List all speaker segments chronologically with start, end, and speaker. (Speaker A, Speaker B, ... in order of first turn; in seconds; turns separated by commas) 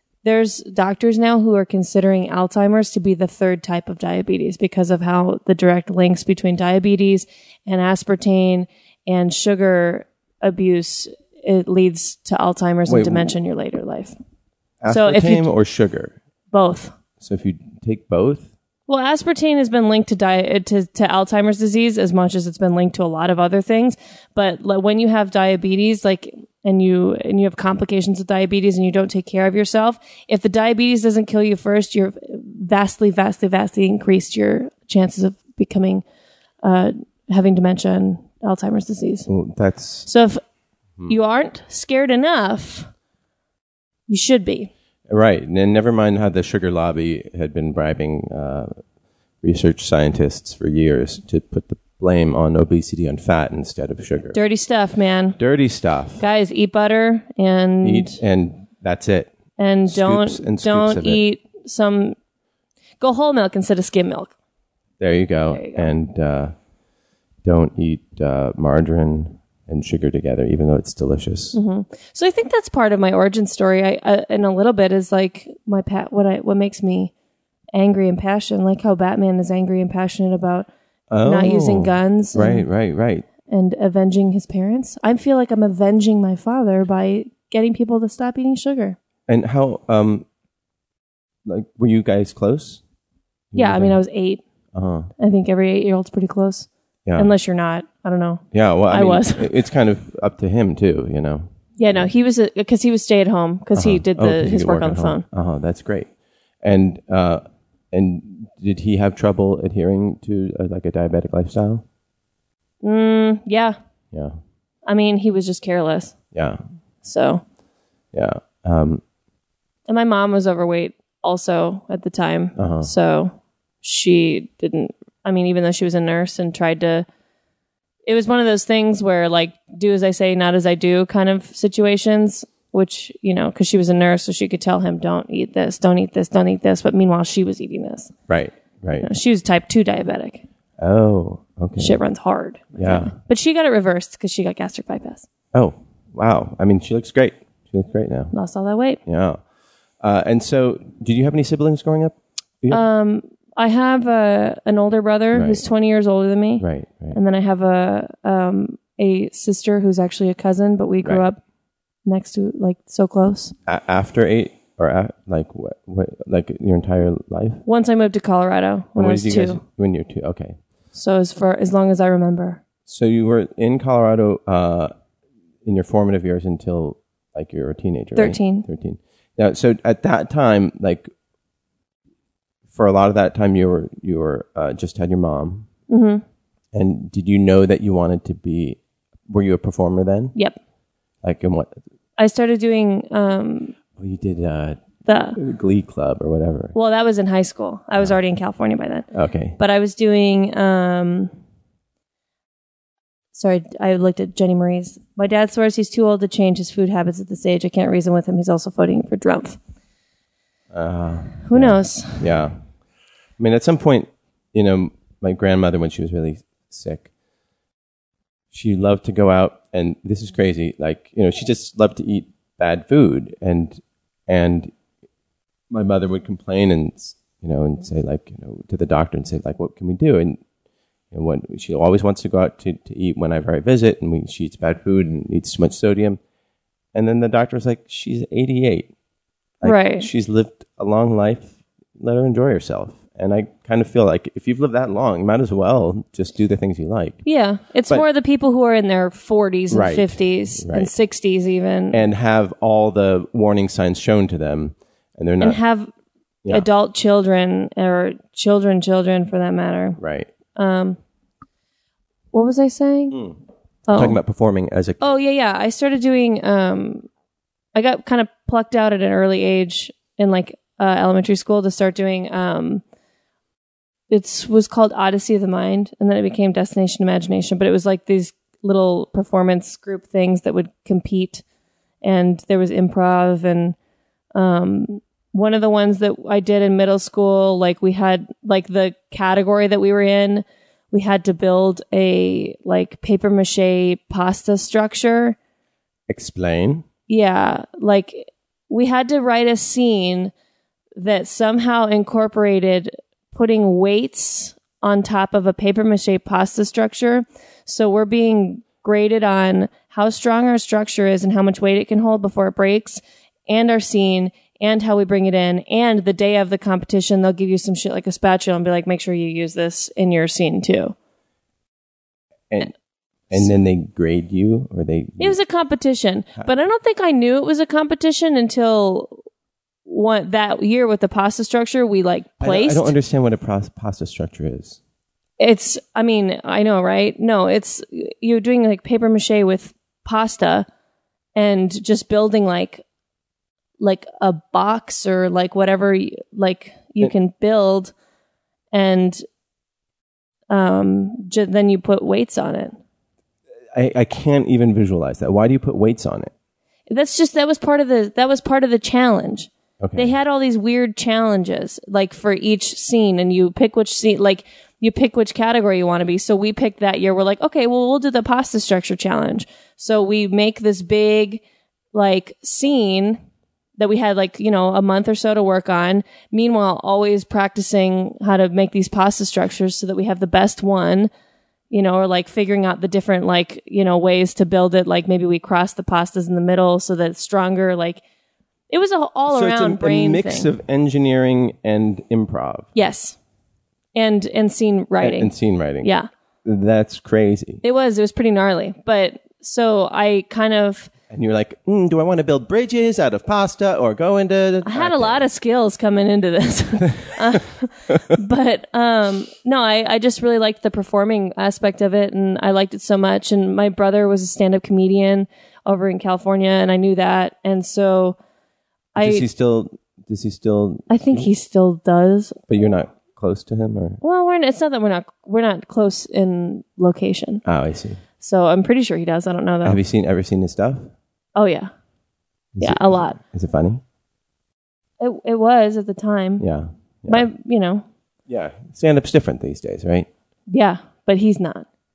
Speaker A: 0.2-14.2, Speaker B: 12.9-13.3, Speaker B: 14.8-16.1, Speaker A: 14.9-15.5, Speaker A: 16.5-16.9, Speaker B: 17.2-18.5, Speaker A: 18.9-36.0, Speaker A: 36.6-39.3, Speaker B: 39.3-40.1, Speaker A: 40.1-40.4, Speaker A: 41.1-42.9, Speaker A: 44.1-44.7, Speaker B: 45.1-48.8, Speaker B: 49.4-54.4, Speaker A: 54.3-55.4, Speaker B: 55.4-56.2, Speaker A: 56.2-58.2, Speaker B: 57.8-59.3, Speaker A: 59.6-62.2, Speaker B: 59.9-61.2, Speaker A: 63.0-64.3, Speaker B: 65.0-66.5, Speaker A: 65.5-65.9, Speaker B: 67.4-71.6, Speaker A: 71.5-77.1, Speaker A: 77.7-80.7, Speaker B: 81.1-83.3, Speaker A: 81.2-82.7, Speaker A: 83.5-89.0, Speaker B: 89.3-90.2, Speaker B: 91.5-92.8, Speaker B: 93.5-94.0, Speaker A: 93.5-94.4, Speaker B: 94.7-95.1, Speaker A: 95.2-99.5, Speaker B: 97.0-97.3, Speaker B: 98.5-102.0, Speaker A: 101.8-105.2, Speaker B: 103.7-106.1, Speaker B: 106.6-111.8, Speaker A: 112.8-113.8, Speaker B: 114.1-114.4, Speaker A: 114.8-116.1, Speaker B: 116.3-116.6, Speaker A: 117.0-117.4, Speaker B: 118.1-119.0, Speaker A: 119.9-127.0, Speaker B: 122.5-122.9, Speaker A: 128.1-138.1, Speaker B: 138.3-139.1, Speaker A: 139.0-140.4, Speaker B: 140.8-142.0, Speaker A: 141.8-145.2, Speaker B: 142.8-143.1, Speaker B: 145.5-148.3, Speaker A: 148.3-149.0, Speaker B: 149.1-149.4, Speaker B: 150.0-152.8, Speaker A: 152.7-161.4, Speaker B: 155.3-155.6, Speaker B: 156.6-157.2, Speaker A: 162.1-163.5, Speaker B: 163.7-167.6, Speaker A: 167.7-169.6, Speaker B: 168.9-170.6, Speaker A: 170.9-172.6, Speaker B: 172.9-174.9, Speaker B: 175.6-181.1, Speaker A: 178.2-178.7, Speaker B: 182.7-185.7, Speaker A: 185.9-186.2, Speaker B: 186.7-190.3, Speaker B: 191.2-191.7, Speaker A: 192.2-193.8, Speaker B: 193.9-194.8, Speaker A: 195.0-195.4, Speaker B: 195.3-196.7, Speaker A: 196.7-199.1, Speaker B: 199.1-199.6, Speaker A: 199.6-201.3, Speaker A: 203.3-209.6, Speaker B: 210.7-212.5, Speaker A: 211.4-212.3, Speaker B: 213.4-217.1, Speaker B: 218.5-224.7, Speaker B: 225.7-230.4, Speaker B: 231.1-236.2, Speaker B: 236.9-238.9, Speaker B: 239.6-247.2, Speaker A: 239.6-240.1, Speaker A: 247.2-252.0, Speaker B: 249.7-250.9, Speaker B: 251.9-255.6, Speaker A: 255.4-255.9, Speaker A: 256.5-260.0, Speaker B: 260.0-260.3, Speaker A: 260.6-261.0, Speaker A: 262.3-263.2, Speaker B: 263.1-263.4, Speaker A: 263.9-264.2, Speaker B: 263.9-265.1, Speaker A: 265.0-267.1, Speaker A: 267.7-272.8, Speaker A: 274.1-281.4, Speaker A: 282.0-283.8, Speaker A: 284.3-295.4, Speaker B: 296.1-296.9, Speaker A: 297.1-300.3, Speaker A: 301.0-320.9, Speaker B: 323.3-325.4, Speaker A: 325.2-329.2, Speaker A: 329.9-332.9, Speaker B: 332.4-334.8, Speaker A: 335.4-340.7, Speaker A: 341.4-342.8, Speaker A: 343.8-347.9, Speaker A: 348.7-349.2, Speaker A: 350.5-352.8, Speaker B: 353.7-356.3, Speaker A: 356.9-371.4, Speaker B: 359.8-360.1, Speaker A: 371.9-373.2, Speaker A: 373.8-381.1, Speaker A: 381.7-388.0, Speaker A: 388.7-390.5, Speaker B: 389.3-392.7, Speaker A: 392.7-393.1, Speaker A: 393.9-396.1, Speaker B: 395.0-395.9, Speaker B: 396.4-397.6, Speaker A: 397.6-400.9, Speaker B: 401.1-405.2, Speaker A: 404.6-418.2, Speaker B: 407.0-407.4, Speaker A: 418.9-419.2, Speaker B: 418.9-421.3, Speaker A: 420.9-422.4, Speaker B: 422.5-424.0, Speaker A: 424.0-427.4, Speaker B: 427.4-428.0, Speaker A: 428.2-429.8, Speaker B: 429.6-430.9, Speaker A: 431.4-431.7, Speaker B: 432.5-433.8, Speaker A: 432.6-433.2, Speaker A: 435.0-436.4, Speaker B: 436.4-437.3, Speaker A: 437.1-437.8, Speaker B: 438.3-440.1, Speaker A: 440.5-441.6